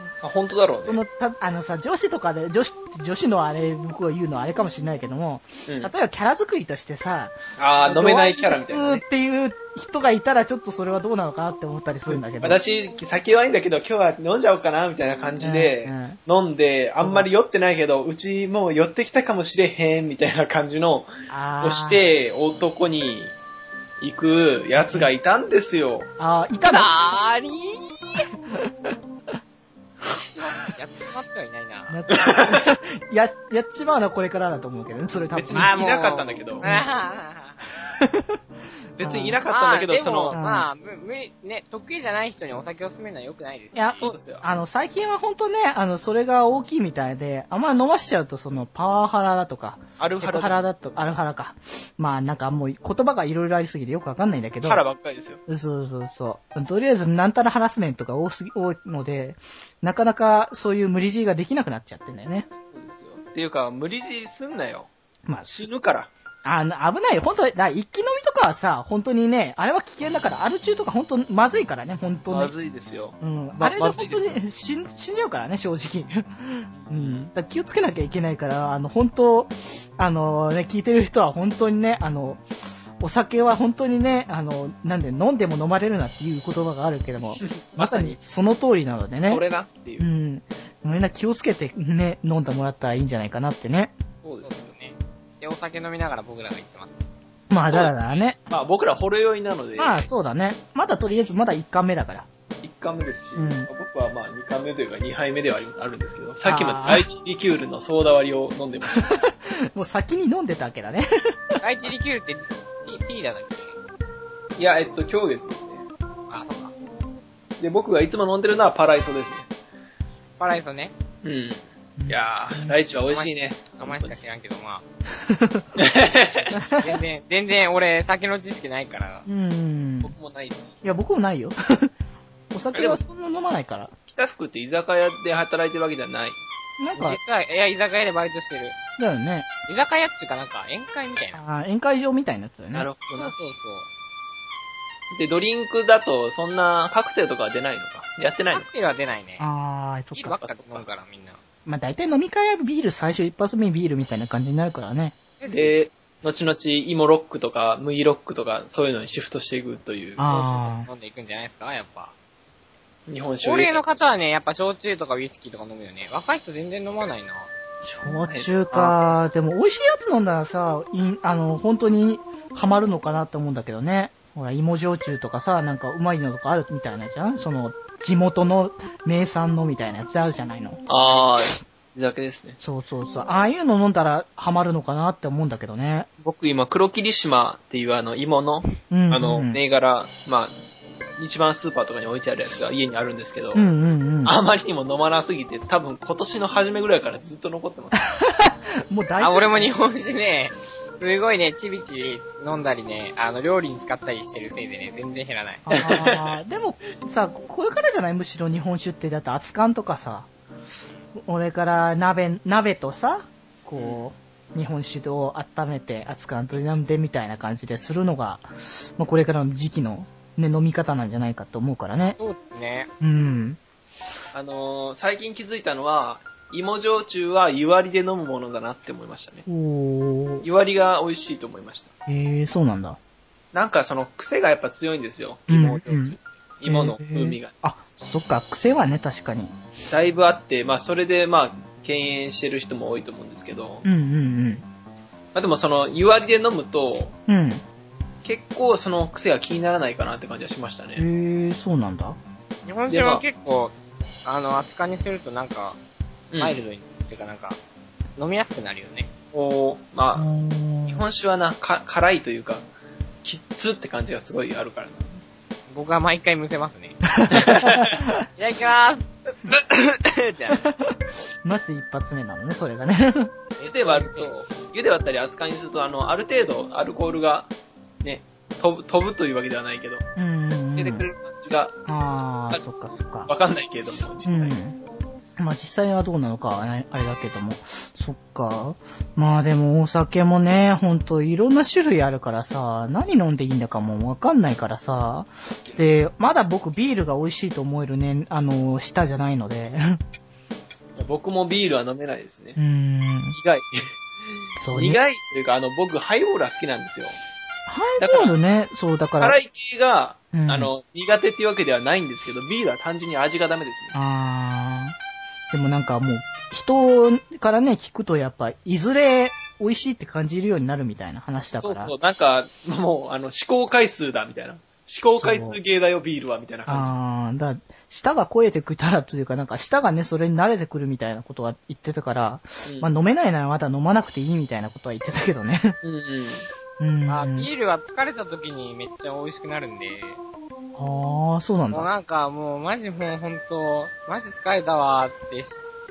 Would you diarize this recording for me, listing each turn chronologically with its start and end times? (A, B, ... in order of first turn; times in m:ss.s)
0:00.2-0:01.0 A
0:00.8-0:12.6 B
0:05.7-0:05.9 A
0:07.6-0:09.0 A
0:12.1-0:21.1 A
0:15.4-0:16.2 B
0:17.0-0:17.3 B
0:21.3-0:22.0 B
0:21.6-0:23.3 A
0:24.0-0:26.1 A
0:24.8-0:25.1 B
0:26.2-0:26.9 B
0:26.6-0:28.0 C
0:30.0-0:32.0 C
0:31.9-0:35.8 B
0:32.1-0:32.7 A
0:35.3-0:36.7 A
0:35.5-0:37.6 C
0:36.6-0:36.9 B
0:38.0-0:38.4 B
0:39.0-0:39.4 B
0:39.0-0:40.4 A
0:39.4-0:44.1 C
0:40.3-0:40.7 B
0:43.8-0:54.8 B
0:44.0-0:44.5 A
0:50.0-0:50.7 A
0:54.6-0:55.4 A
0:55.5-1:02.5 B
1:02.5-1:04.9 A
1:05.3-1:05.7 B
1:05.5-1:06.1 A
1:06.4-1:12.5 B
1:12.3-1:14.4 A
1:13.2-1:22.4 B
1:16.7-1:17.3 A
1:23.0-1:29.4 B
1:27.4-1:28.2 A
1:29.2-1:30.1 A
1:30.0-1:33.9 B
1:34.2-1:34.7 A
1:34.4-1:37.0 C
1:37.5-1:38.4 B
1:37.7-1:38.0 A
1:37.7-1:38.2 C
1:38.5-1:40.0 A
1:39.8-1:42.3 B
1:42.6-1:49.2 A
1:43.4-1:43.7 B
1:46.4-1:47.1 B
1:49.0-1:51.0 B
1:51.6-1:53.7 C
1:54.6-1:55.8 A
1:56.3-1:56.7 C
1:57.6-1:59.5 A
2:00.4-2:00.9 C
2:01.2-2:04.2 A
2:02.0-2:02.8 B
2:03.1-2:04.8 C
2:05.3-2:05.7 B
2:05.8-2:06.6 A
2:06.6-2:07.0 B
2:06.8-2:09.3 C
2:09.3-2:10.1 B
2:10.0-2:10.8 A
2:10.8-2:11.9 B
2:12.5-2:13.9 B
2:12.7-2:13.0 A
2:14.1-2:16.4 A
2:16.8-2:17.2 B
2:17.0-2:18.8 C
2:19.0-2:19.5 B
2:19.7-2:21.4 C
2:21.4-2:22.9 B
2:22.7-2:23.6 A
2:23.2-2:23.9 C
2:25.1-2:28.7 A
2:28.5-2:29.5 C
2:29.4-2:30.8 B
2:30.2-2:31.4 C
2:31.7-2:35.2 B
2:35.4-2:35.7 C
2:35.5-2:40.3 A
2:40.2-2:40.9 B
2:40.3-2:42.1 C
2:43.1-2:44.1 A
2:43.4-2:47.5 C
2:47.8-3:01.3 B
2:48.1-2:49.1 A
3:00.9-3:02.6 A
3:02.6-3:06.1 B
3:06.2-3:10.5 A
3:08.8-3:09.6 B
3:11.2-3:13.7 A
3:13.5-3:14.4 B
3:14.2-3:18.1 A
3:18.1-3:19.8 B
3:19.2-3:25.6 C
3:25.7-3:30.3 B
3:25.7-3:26.4 A
3:31.2-3:42.2 B
3:33.8-3:34.1 A
3:42.2-3:42.9 C
3:43.0-3:43.6 B
3:44.3-3:49.5 A
3:49.5-3:50.5 B
3:50.4-3:51.9 A
3:52.1-3:53.0 B
3:53.5-3:57.5 A
3:55.5-3:59.5 B
3:59.9-4:03.9 A
4:03.8-4:04.6 B
4:05.3-4:07.2 A
4:07.3-4:07.6 B
4:08.2-4:11.0 A
4:11.0-4:12.2 B
4:12.6-4:13.7 C
4:12.9-4:13.2 A
4:14.2-4:15.8 C
4:16.3-4:16.6 A
4:16.4-4:17.6 C
4:18.2-4:19.1 C
4:19.3-4:20.3 A
4:20.2-4:21.0 B
4:20.9-4:22.6 A
4:23.2-4:25.2 A
4:25.7-4:27.0 C
4:27.1-4:28.1 B
4:27.3-4:27.9 A
4:28.4-4:29.1 C
4:29.5-4:30.4 A
4:30.8-4:33.3 B
4:33.6-4:34.5 C
4:33.6-4:37.5 A
4:38.0-4:40.0 A
4:40.2-4:41.1 B
4:40.8-4:41.7 A
4:41.9-4:43.3 B
4:43.3-4:44.6 A
4:44.2-4:44.8 B
4:45.4-5:00.0 B
5:01.0-5:02.6 A
5:02.6-5:03.4 B
5:03.3-5:04.0 A
5:04.6-5:05.0 B
5:04.7-5:07.2 A
5:07.7-5:09.4 B
5:08.0-5:08.4 A
5:09.2-5:14.0 A
5:10.3-5:10.7 B
5:13.9-5:15.0 B
5:15.5-5:21.9 B
5:21.6-5:26.9 A
5:25.1-5:25.6 B
5:26.7-5:35.8 B
5:32.6-5:32.9 A
5:35.8-5:36.5 A
5:36.8-5:37.5 B
5:37.1-5:40.2 C
5:40.8-5:41.9 B
5:41.7-5:45.7 C